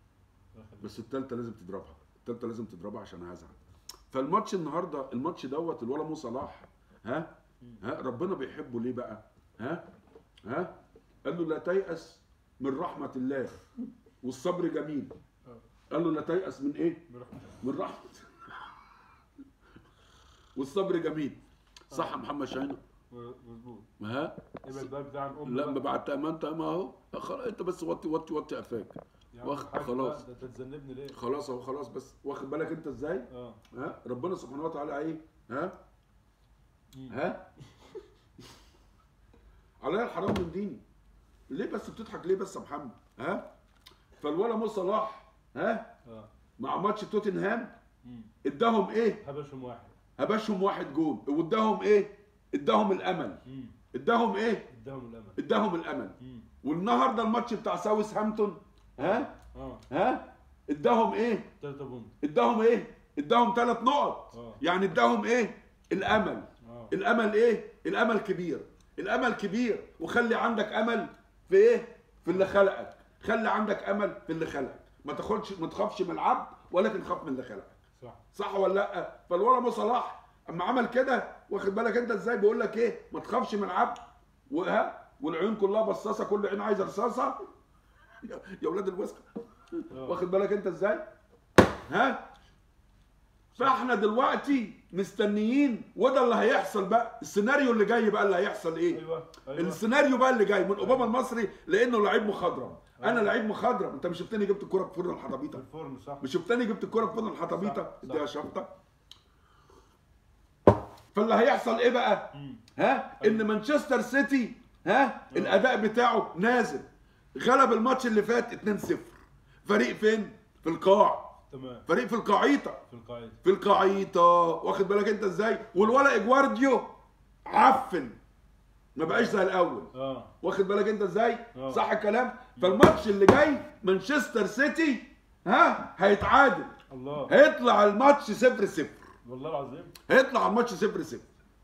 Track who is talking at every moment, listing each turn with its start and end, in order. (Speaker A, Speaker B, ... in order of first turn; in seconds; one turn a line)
Speaker A: 0.5-1.0
Speaker B: 0.8-3.6
Speaker B: 4.1-9.9
Speaker B: 10.4-13.6
Speaker B: 14.2-15.1
Speaker B: 15.9-17.1
Speaker A: 17.1-17.6
Speaker B: 17.6-18.2
Speaker B: 20.6-22.8
Speaker A: 21.9-22.2
Speaker A: 23.1-23.9
Speaker B: 24.0-24.9
Speaker A: 24.6-25.9
Speaker B: 25.4-30.2
Speaker A: 29.3-31.2
Speaker B: 31.1-35.8
Speaker A: 33.3-33.6
Speaker A: 36.9-37.2
Speaker B: 37.1-37.5
Speaker B: 39.8-40.8
Speaker B: 41.5-43.5
Speaker B: 44.2-45.9
Speaker B: 46.6-47.7
Speaker A: 48.0-48.3
Speaker B: 48.4-49.2
Speaker A: 49.2-49.9
Speaker B: 50.2-53.4
Speaker A: 53.5-53.8
Speaker B: 53.9-54.7
Speaker A: 54.7-55.4
Speaker B: 55.4-59.3
Speaker A: 56.2-56.5
Speaker A: 59.0-59.8
Speaker B: 59.9-61.5
Speaker A: 61.6-62.1
Speaker B: 62.2-77.8
Speaker A: 64.3-64.6
Speaker A: 66.6-66.9
Speaker B: 78.3-84.0
Speaker B: 84.5-87.4
Speaker B: 88.2-91.0
Speaker A: 89.9-90.2
Speaker B: 91.9-92.3
Speaker B: 93.6-99.0
Speaker A: 98.9-99.8
Speaker B: 99.5-105.6
Speaker A: 100.8-101.1
Speaker A: 103.0-103.3
Speaker A: 105.5-106.3
Speaker B: 106.2-108.7
Speaker A: 107.4-108.3
Speaker B: 111.1-119.1
Speaker A: 112.3-112.6
Speaker A: 113.2-113.5
Speaker A: 115.3-115.6
Speaker B: 119.6-121.3
Speaker A: 121.5-121.9
Speaker B: 121.9-122.8
Speaker A: 122.9-123.4
Speaker B: 123.4-126.9
Speaker B: 127.5-128.2
Speaker B: 128.9-136.7
Speaker A: 129.0-129.4
Speaker A: 129.9-130.3
Speaker A: 131.5-131.8
Speaker A: 136.9-137.3
Speaker B: 137.3-139.0
Speaker A: 139.2-139.9
Speaker B: 140.1-141.3